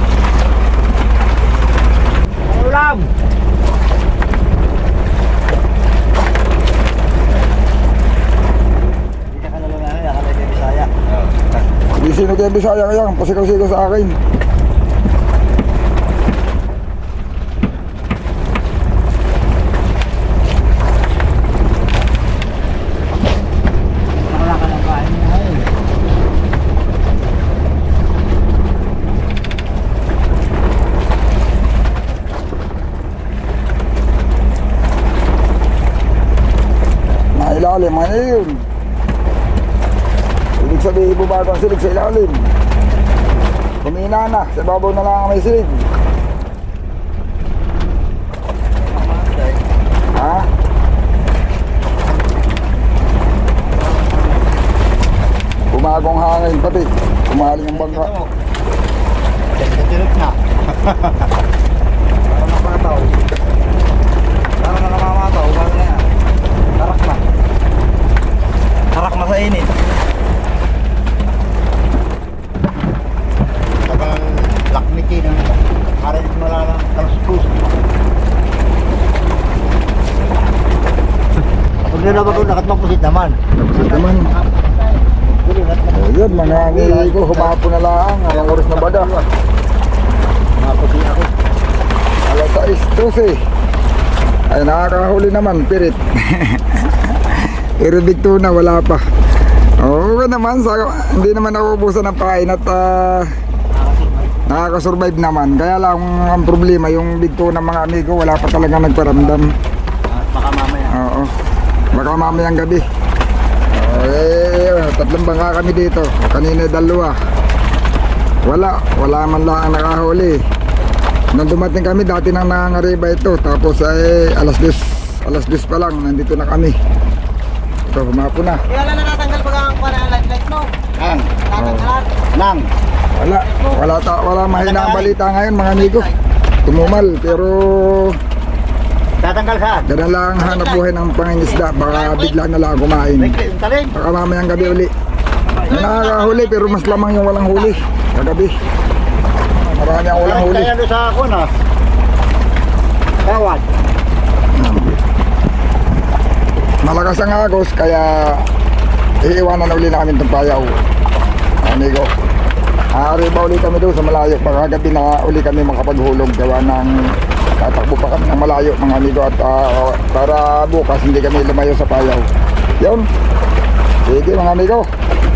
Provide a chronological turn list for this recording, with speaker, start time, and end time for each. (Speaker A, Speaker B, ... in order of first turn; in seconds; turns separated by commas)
Speaker A: 2.5-3.1, Speaker A: 9.3-11.4, Speaker B: 11.9-14.2, Speaker A: 24.2-25.7, Speaker B: 37.4-38.6, Speaker B: 40.6-42.5, Speaker B: 43.8-45.9, Speaker A: 48.8-49.6, Speaker B: 50.1-50.5, Speaker A: 53.7-54.6, Speaker B: 55.7-58.1, Speaker A: 57.6-58.3, Speaker A: 59.5-61.2, Speaker A: 62.3-63.2, Speaker A: 64.6-66.1, Speaker A: 66.8-67.3, Speaker A: 68.9-69.7, Speaker A: 73.8-77.8, Speaker A: 81.9-87.5, Speaker B: 83.6-84.3, Speaker B: 85.9-89.1, Speaker A: 88.3-89.3, Speaker A: 90.6-91.3, Speaker B: 92.2-93.4, Speaker B: 94.5-99.0, Speaker B: 99.8-103.3, Speaker A: 103.7-104.5, Speaker B: 104.5-109.5, Speaker A: 110.1-110.9, Speaker B: 110.9-111.3, Speaker B: 111.9-112.8, Speaker B: 113.7-117.2, Speaker B: 118.5-120.4, Speaker B: 121.3-126.8, Speaker B: 127.9-128.7, Speaker C: 128.7-130.7, Speaker A: 130.9-131.5, Speaker C: 131.5-132.1, Speaker B: 131.5-131.9, Speaker A: 132.2-132.7, Speaker B: 133.1-136.1, Speaker A: 134.5-135.2, Speaker B: 136.7-138.2, Speaker A: 136.7-137.4, Speaker A: 139.2-139.9, Speaker B: 139.9-143.4, Speaker A: 141.6-142.3, Speaker A: 143.2-143.9, Speaker B: 143.9-144.9, Speaker A: 145.4-145.8, Speaker C: 145.6-147.2, Speaker B: 145.7-148.6, Speaker A: 149.6-151.6, Speaker B: 149.7-150.7, Speaker A: 153.2-153.7, Speaker B: 154.5-155.0, Speaker B: 156.8-158.5, Speaker B: 159.2-160.8, Speaker B: 161.6-162.1, Speaker B: 163.0-166.9, Speaker B: 167.6-172.3, Speaker B: 172.8-173.1, Speaker B: 174.1-174.9